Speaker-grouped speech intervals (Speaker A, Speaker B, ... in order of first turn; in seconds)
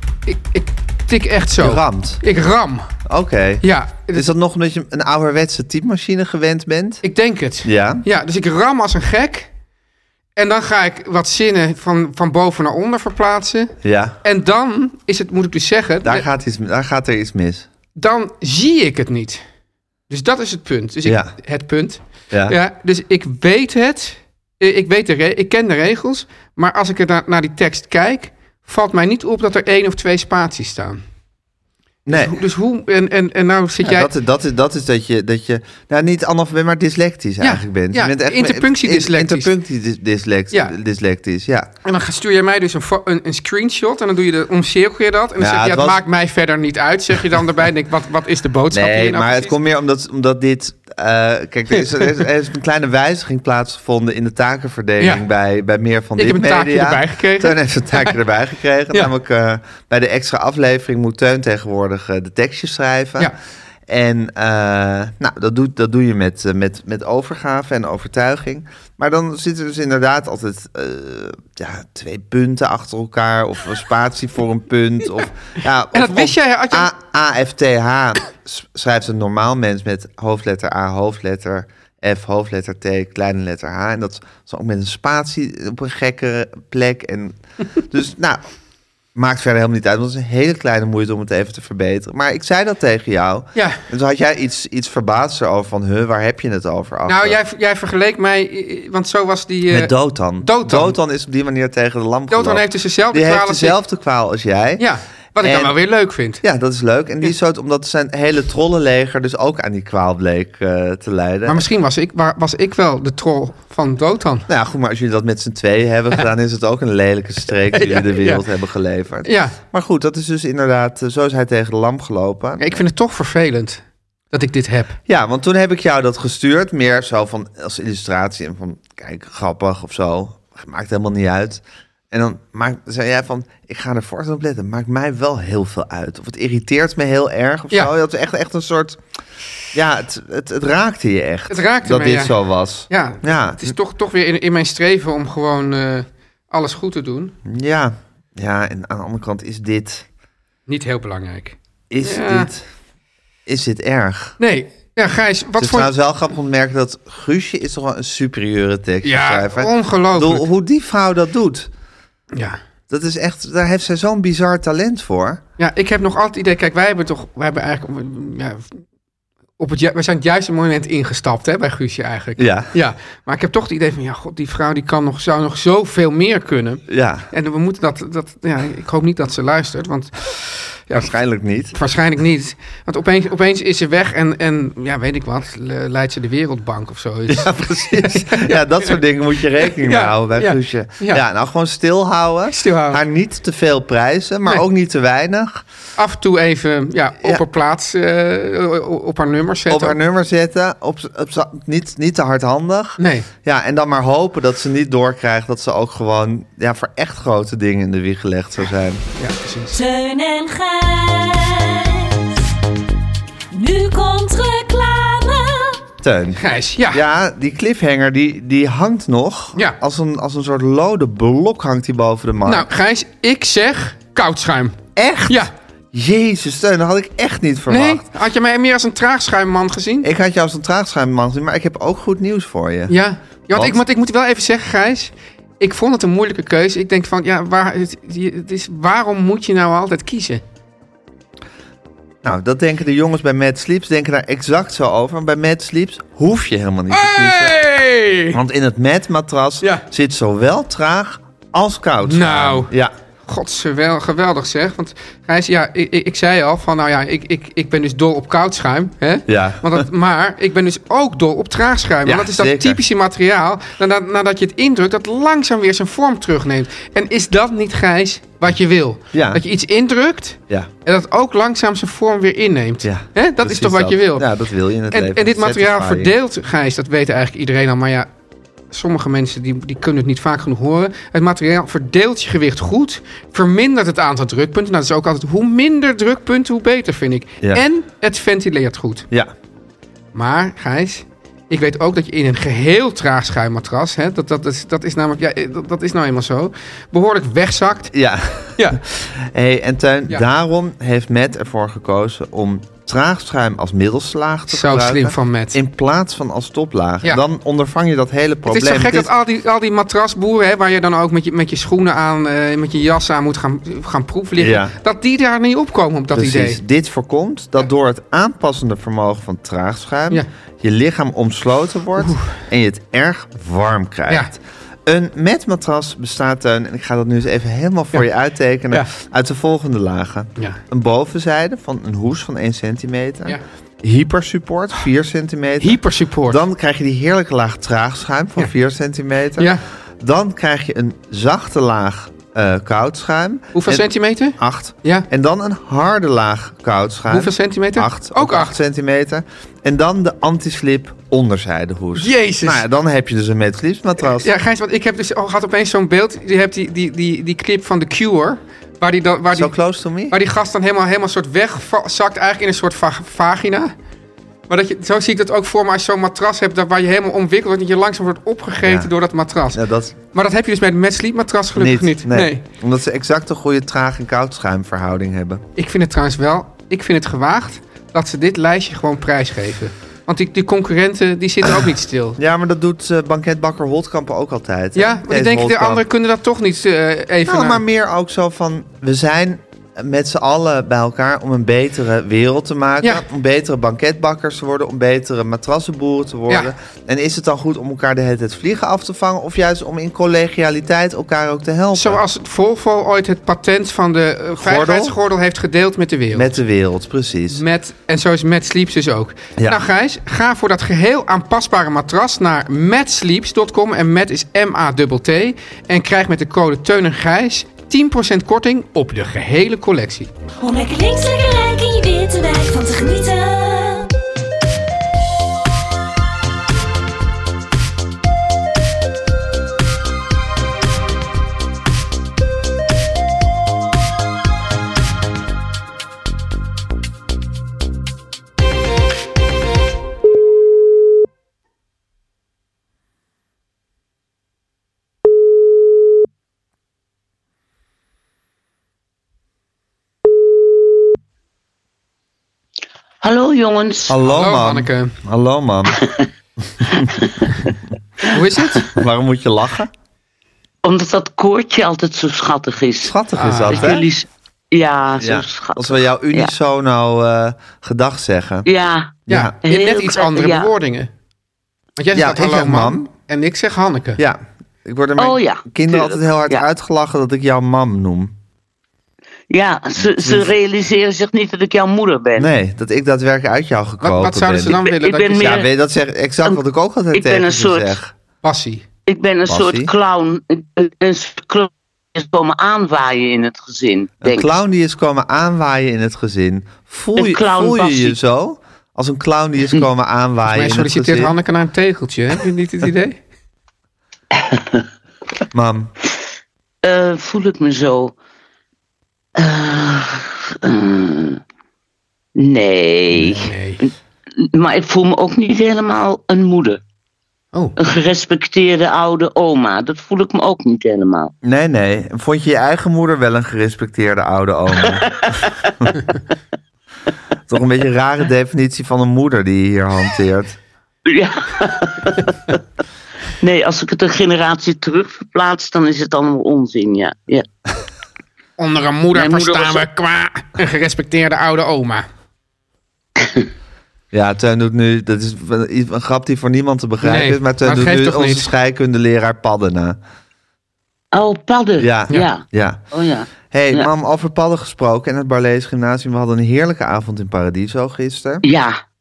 Speaker A: 0.2-2.9, 3.6-4.3, 7.0-9.5, 10.4-16.3, 18.0-19.4, 20.1-31.0, 32.1-34.1, 37.4-39.5, 41.8-49.5, 51.7-52.2, 56.2-58.2, 75.9-76.9, 93.5-93.8, 97.1-101.0, 102.3-103.8, 104.8-106.4, 111.5-114.5, 117.7-118.4, 119.2-119.6, 122.6-125.0, 141.5-142.3, 142.9-147.3, 150.7-152.5, 154.4-155.9, 159.0-160.5, 162.3-162.6, 165.6-168.8, 169.6-181.1, 181.7-189.0, 189.7-191.2, 192.5-193.0, 196.0-200.0, 203.0-203.3, 209.2-209.8, 216.4-217.0, 222.4-225.5, 227.7-230.1, 232.9-240.4, 246.9-248.4, 252.1-252.7, 253.3-274.3, 274.9-278.1, 278.7-289.1, 290.1-297.9, 304.5-305.6, 308.5-316.6, 322.0-322.3, 335.6-336.4, 339.4-339.6, 343.5-345.1, 347.1-348.6, 352.0-352.6, 354.2-359.5, 360.1-363.7, 364.5-372.4, 375.6-382.2, 384.8-387.6, 401.7-406.4, 407.3-420.1, 454.1-454.9, 458.1-458.7, 463.2-463.7, 469.1-470.9, 471.8-474.0, 483.8-485.4, 488.2-488.6, 500.3-503.0, 513.0-513.6, 538.4-541.9, 546.8-548.3
Speaker B: 1.6-2.2, 3.0-7.0, 7.6-8.0, 13.8-14.2, 16.0-17.7, 21.1-21.3, 22.3-22.6, 32.1-32.4, 33.8-41.7, 45.4-46.0, 48.7-63.3, 63.9-88.4, 89.2-97.4, 99.7-104.8, 105.4-105.8, 106.4-111.6, 114.5-122.7, 125.1-139.0, 139.7-143.8, 147.4-150.1, 151.9-152.7, 153.5-154.4, 155.6-161.7, 162.9-165.4, 172.4-172.7, 176.9-177.3, 180.9-181.7, 187.3-195.6, 199.7-209.1, 216.0-222.7, 225.0-228.1, 230.0-232.9, 233.5-233.8, 242.2-247.6, 248.3-252.9, 259.3-259.9, 262.0-262.8, 269.1-269.4, 272.8-276.1, 297.9-309.1, 314.4-314.7, 316.1-354.3, 359.3-360.2, 368.6-368.9, 369.5-370.0, 371.6-375.4, 382.2-385.8, 387.3-402.0, 404.4-405.0, 406.1-407.4, 409.4-409.6, 453.9-455.8, 456.6-456.9, 458.7-459.7, 462.8-463.9, 465.0-468.5, 469.1-469.4, 471.9-472.9, 474.0-478.1, 479.8-480.4, 482.2-484.6, 485.2-487.9, 489.3-489.7, 494.0-501.1, 505.3-505.7, 521.2-524.9, 527.3-530.4, 543.9-549.8, 551.6-552.6, 553.2-558.2
Speaker C: 209.7-212.5, 213.5-215.8, 420.4-423.9
Speaker D: 453.0-454.0, 455.7-456.1, 456.8-457.5, 460.6-462.9, 463.5-466.3, 468.4-470.5, 475.0-476.5, 479.3-482.3, 484.6-485.5, 486.9-487.8, 488.9-494.3, 497.0-498.0, 504.1-504.6, 506.6-507.9, 509.2-511.2, 512.2-513.3, 514.2-516.6, 517.6-521.1, 524.6-525.5, 530.9-532.4, 533.2-537.3, 538.9-539.6, 543.0-543.3, 550.9-553.7, 558.2-558.6